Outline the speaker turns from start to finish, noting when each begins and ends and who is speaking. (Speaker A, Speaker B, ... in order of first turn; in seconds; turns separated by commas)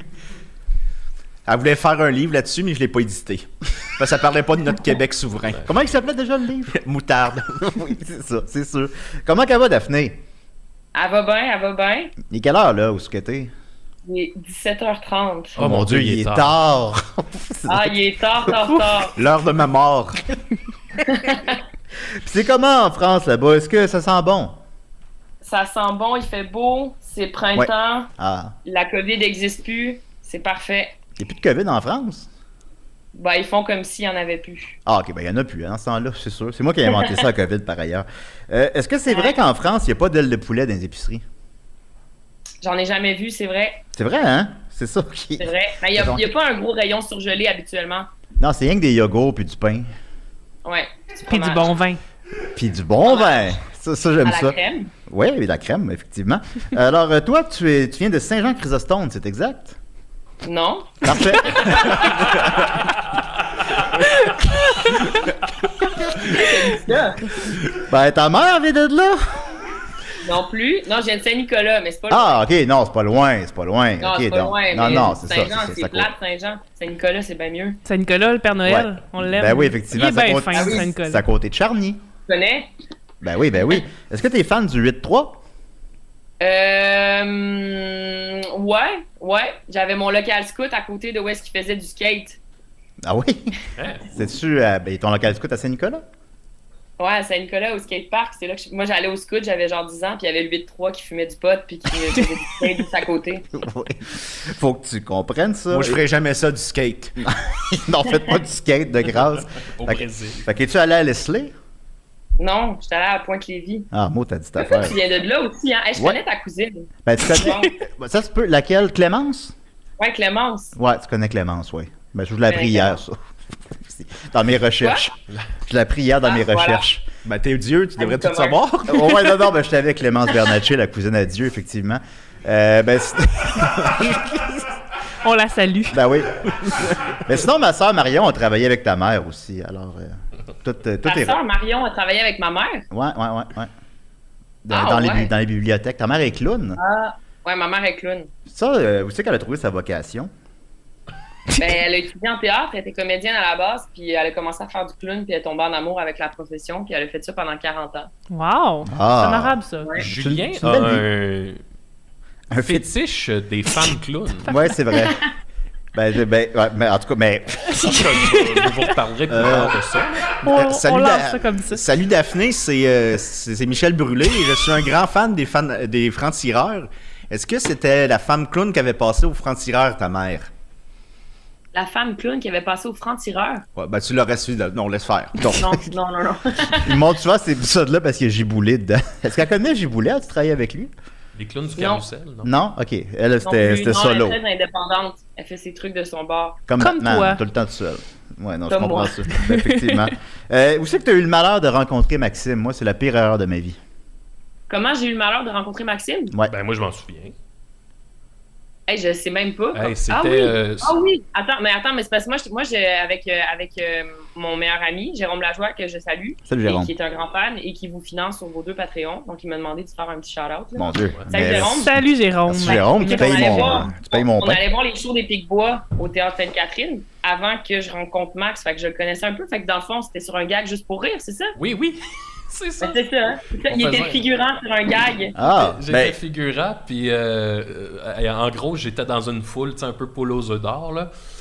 Speaker A: 1.4-5.7, Speaker B: 5.7-6.8, Speaker A: 6.7-7.7, Speaker B: 7.6-10.2, Speaker C: 10.9-12.1, Speaker B: 12.2-13.5, Speaker C: 14.0-15.6, Speaker B: 15.6-18.6, Speaker D: 15.6-16.6, Speaker C: 17.7-19.2, Speaker A: 19.1-20.2, Speaker C: 21.1-21.6, Speaker B: 22.2-24.6, Speaker C: 25.4-28.1, Speaker B: 27.5-28.5, Speaker C: 28.6-30.9, Speaker B: 31.2-32.3, Speaker C: 33.1-34.8, Speaker B: 34.9-41.2, Speaker C: 36.9-37.2, Speaker C: 39.1-39.4, Speaker C: 42.6-43.8, Speaker B: 43.9-46.3, Speaker C: 45.4-48.1, Speaker B: 48.4-49.9, Speaker C: 50.6-51.7, Speaker E: 51.2-52.0, Speaker B: 52.5-59.8, Speaker C: 53.0-53.5, Speaker C: 54.2-54.9, Speaker C: 60.4-62.1, Speaker B: 61.0-62.4, Speaker C: 66.1-67.5, Speaker B: 67.8-69.2, Speaker C: 70.2-72.4, Speaker B: 72.1-76.1, Speaker C: 74.0-77.8, Speaker E: 77.8-81.2, Speaker B: 78.6-82.0, Speaker C: 80.5-80.8, Speaker C: 82.3-82.7, Speaker B: 83.2-85.4, Speaker C: 86.4-92.4, Speaker B: 93.0-93.5, Speaker D: 93.8-94.0, Speaker B: 94.1-96.0, Speaker C: 97.0-103.5, Speaker B: 103.5-106.0, Speaker A: 105.7-107.2, Speaker B: 107.2-111.5, Speaker D: 109.6-110.5, Speaker C: 112.4-113.9, Speaker B: 113.9-115.0, Speaker C: 114.6-117.7, Speaker B: 117.0-119.5, Speaker C: 120.0-120.7, Speaker B: 120.8-123.2, Speaker C: 122.5-123.0, Speaker B: 123.8-125.1, Speaker C: 124.8-125.0, Speaker B: 125.6-127.0, Speaker C: 126.2-126.8, Speaker A: 127.2-129.3, Speaker C: 128.0-128.6, Speaker B: 128.9-134.6, Speaker E: 135.2-136.0, Speaker B: 135.9-136.5, Speaker B: 137.2-141.4, Speaker C: 141.0-142.8, Speaker B: 142.9-143.7, Speaker B: 144.7-146.8, Speaker C: 144.7-145.3, Speaker C: 146.8-148.3, Speaker B: 148.5-150.3, Speaker C: 151.6-158.1, Speaker E: 158.3-159.9, Speaker B: 158.8-161.0, Speaker D: 160.0-161.6, Speaker B: 162.5-162.9, Speaker D: 162.5-164.5, Speaker B: 164.5-165.2, Speaker C: 165.0-165.3, Speaker B: 165.9-167.7, Speaker E: 167.7-168.9, Speaker D: 167.8-170.3, Speaker A: 169.3-169.8, Speaker A: 170.4-180.5, Speaker E: 170.4-171.8, Speaker C: 181.7-183.7, Speaker A: 183.8-185.9, Speaker C: 185.6-187.0, Speaker B: 186.8-190.9, Speaker D: 191.3-192.5, Speaker C: 191.8-192.1, Speaker B: 192.4-194.4, Speaker C: 193.4-196.6, Speaker B: 196.7-203.8, Speaker E: 196.8-197.4, Speaker C: 198.7-199.2, Speaker E: 199.5-199.9, Speaker C: 204.7-206.3, Speaker D: 206.5-207.3, Speaker C: 208.9-221.9, Speaker D: 209.7-210.9, Speaker B: 216.5-216.9, Speaker B: 220.8-221.9, Speaker E: 221.5-223.8, Speaker B: 222.5-224.6, Speaker C: 222.6-231.6, Speaker D: 231.6-233.0, Speaker C: 232.8-235.3, Speaker D: 233.7-234.2, Speaker B: 235.3-236.2, Speaker D: 235.4-241.1